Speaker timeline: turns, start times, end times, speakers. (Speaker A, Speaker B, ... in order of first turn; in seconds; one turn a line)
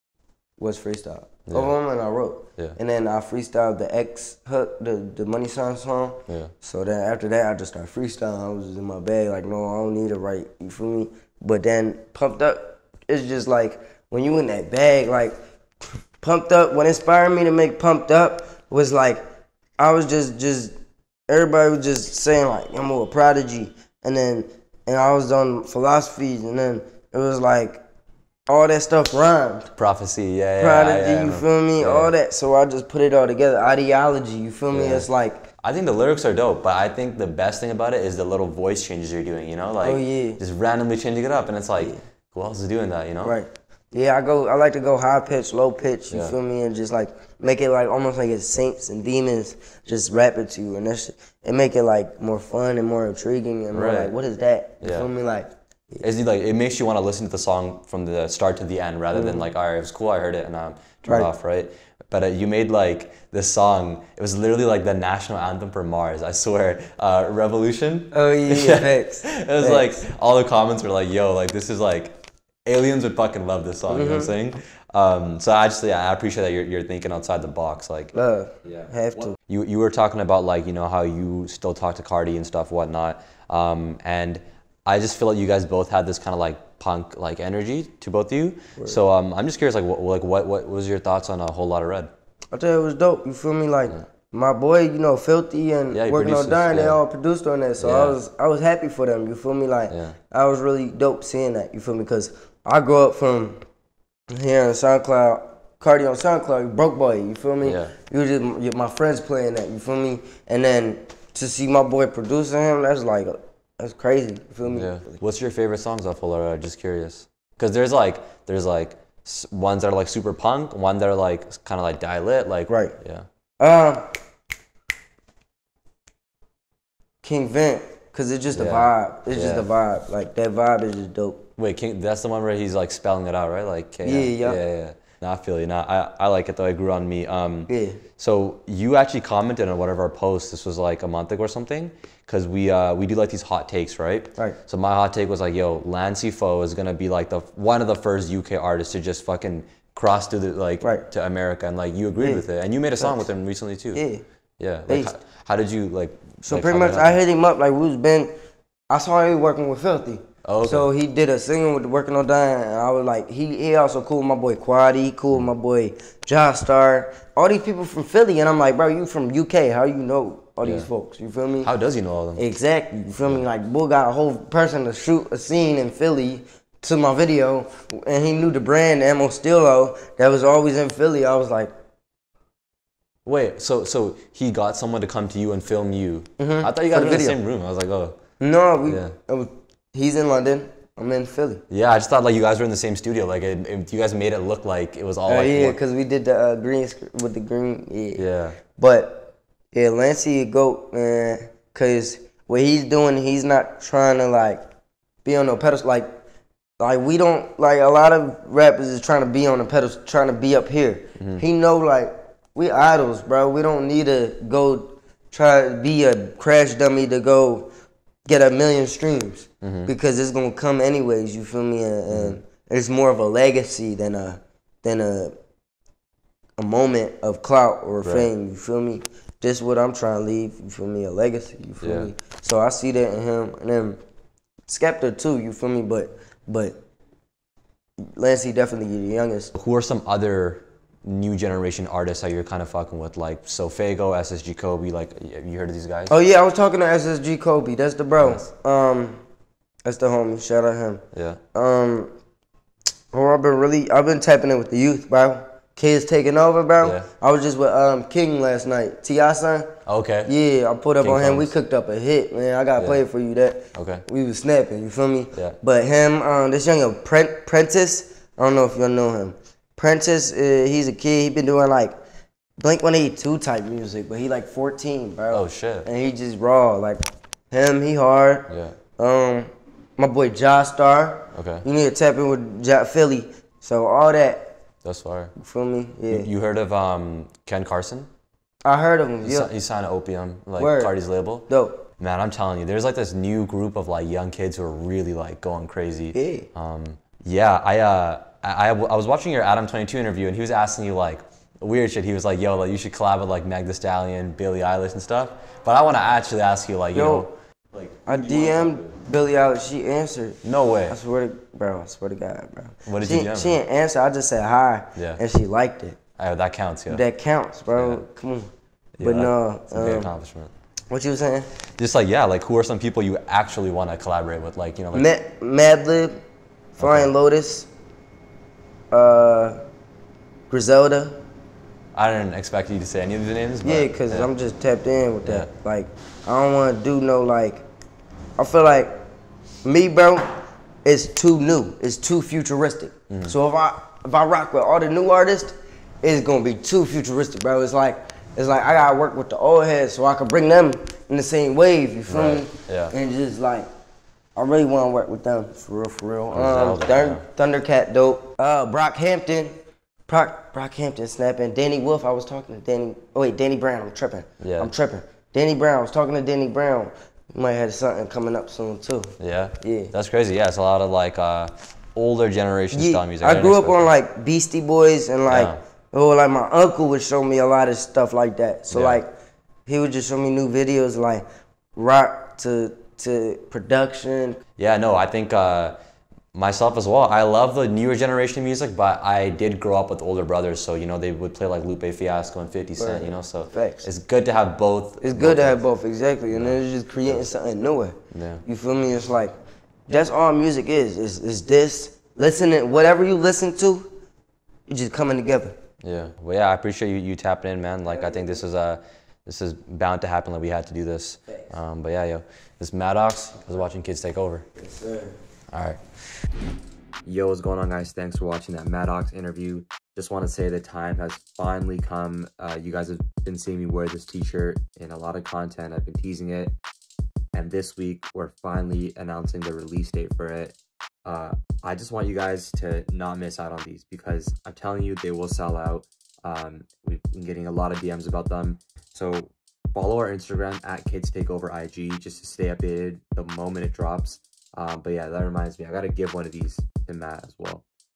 Speaker A: 0.6-15.3
Speaker B: 1.5-1.7
Speaker B: 6.3-6.5
Speaker A: 16.2-19.2
Speaker A: 19.8-20.7
Speaker A: 21.3-27.8
Speaker A: 28.5-29.7
Speaker B: 29.8-32.1
Speaker A: 30.6-35.4
Speaker B: 34.7-35.1
Speaker B: 35.6-43.4
Speaker A: 39.8-40.4
Speaker A: 43.2-56.0
Speaker B: 46.1-46.3
Speaker B: 53.7-54.1
Speaker B: 54.8-55.1
Speaker B: 56.0-78.1
Speaker A: 59.1-59.5
Speaker A: 61.0-61.3
Speaker A: 68.1-70.0
Speaker A: 73.9-74.3
Speaker A: 78.1-79.4
Speaker B: 78.6-92.1
Speaker A: 92.5-103.6
Speaker B: 95.9-97.0
Speaker B: 97.8-98.2
Speaker B: 99.9-100.2
Speaker A: 104.3-115.2
Speaker B: 107.6-107.9
Speaker B: 114.7-123.2
Speaker A: 122.7-122.9
Speaker A: 123.6-124.1
Speaker A: 127.2-131.4
Speaker B: 128.5-129.7
Speaker B: 131.6-154.0
Speaker A: 134.0-134.6
Speaker A: 137.7-138.0
Speaker A: 150.8-151.1
Speaker A: 152.2-152.4
Speaker A: 153.0-153.3
Speaker A: 153.9-154.2
Speaker B: 154.6-157.2
Speaker A: 154.9-155.1
Speaker A: 156.4-158.3
Speaker A: 158.9-171.7
Speaker B: 160.4-160.9
Speaker B: 170.6-170.9
Speaker B: 171.6-172.4
Speaker A: 172.4-181.7
Speaker B: 183.2-188.2
Speaker A: 186.4-187.4
Speaker A: 188.4-191.6
Speaker B: 188.8-189.1
Speaker B: 191.7-195.8
Speaker A: 195.3-198.2
Speaker B: 198.1-198.6
Speaker A: 198.8-204.6
Speaker A: 205.2-206.1
Speaker A: 206.8-217.7
Speaker B: 211.2-211.4
Speaker A: 218.2-225.3
Speaker B: 219.6-219.9
Speaker B: 222.1-222.4
Speaker A: 226.6-234.0
Speaker B: 228.0-228.3
Speaker B: 231.8-232.1
Speaker A: 234.7-236.8
Speaker A: 238.0-239.5
Speaker B: 239.5-246.2
Speaker A: 246.1-249.2
Speaker B: 248.2-248.4
Speaker A: 249.8-252.1
Speaker B: 251.1-251.4
Speaker A: 253.1-271.9
Speaker B: 256.8-257.1
Speaker B: 259.9-260.3
Speaker B: 261.0-261.5
Speaker B: 263.7-264.0
Speaker A: 272.6-284.6
Speaker B: 275.3-275.9
Speaker B: 278.5-278.8
Speaker B: 281.3-281.6
Speaker B: 284.8-285.3
Speaker A: 285.4-286.3
Speaker B: 286.1-288.1
Speaker A: 288.6-289.5
Speaker B: 289.2-291.5
Speaker A: 290.6-290.9
Speaker A: 291.5-291.9
Speaker B: 292.0-309.0
Speaker A: 296.1-296.5
Speaker A: 306.9-307.3
Speaker A: 308.1-316.0
Speaker B: 310.4-311.0
Speaker B: 312.9-313.6
Speaker B: 314.9-315.2
Speaker B: 316.2-317.0
Speaker A: 316.9-320.1
Speaker B: 317.7-318.0
Speaker B: 319.0-320.5
Speaker A: 320.9-321.5
Speaker B: 321.8-325.1
Speaker A: 324.9-326.2
Speaker A: 326.7-327.7
Speaker B: 326.8-327.1
Speaker A: 328.9-329.6
Speaker A: 330.5-331.2
Speaker B: 331.9-334.3
Speaker A: 333.6-337.6
Speaker A: 338.4-338.9
Speaker A: 339.6-340.3
Speaker A: 340.8-353.7
Speaker B: 343.1-343.3
Speaker B: 352.1-352.9
Speaker A: 354.4-359.6
Speaker B: 356.3-357.2
Speaker A: 360.1-369.9
Speaker B: 364.4-364.7
Speaker B: 369.2-373.9
Speaker A: 372.7-379.1
Speaker B: 375.3-375.6
Speaker B: 378.7-379.0
Speaker A: 379.7-384.4
Speaker B: 384.6-385.7
Speaker B: 386.3-395.6
Speaker A: 392.8-393.9
Speaker A: 395.0-399.3
Speaker B: 396.3-397.2
Speaker B: 398.1-398.4
Speaker A: 399.9-403.9
Speaker A: 404.7-405.6
Speaker B: 405.8-414.4
Speaker A: 407.9-408.4
Speaker A: 411.3-411.5
Speaker A: 414.6-415.2
Speaker B: 415.5-415.8
Speaker B: 417.0-426.6
Speaker B: 427.3-447.6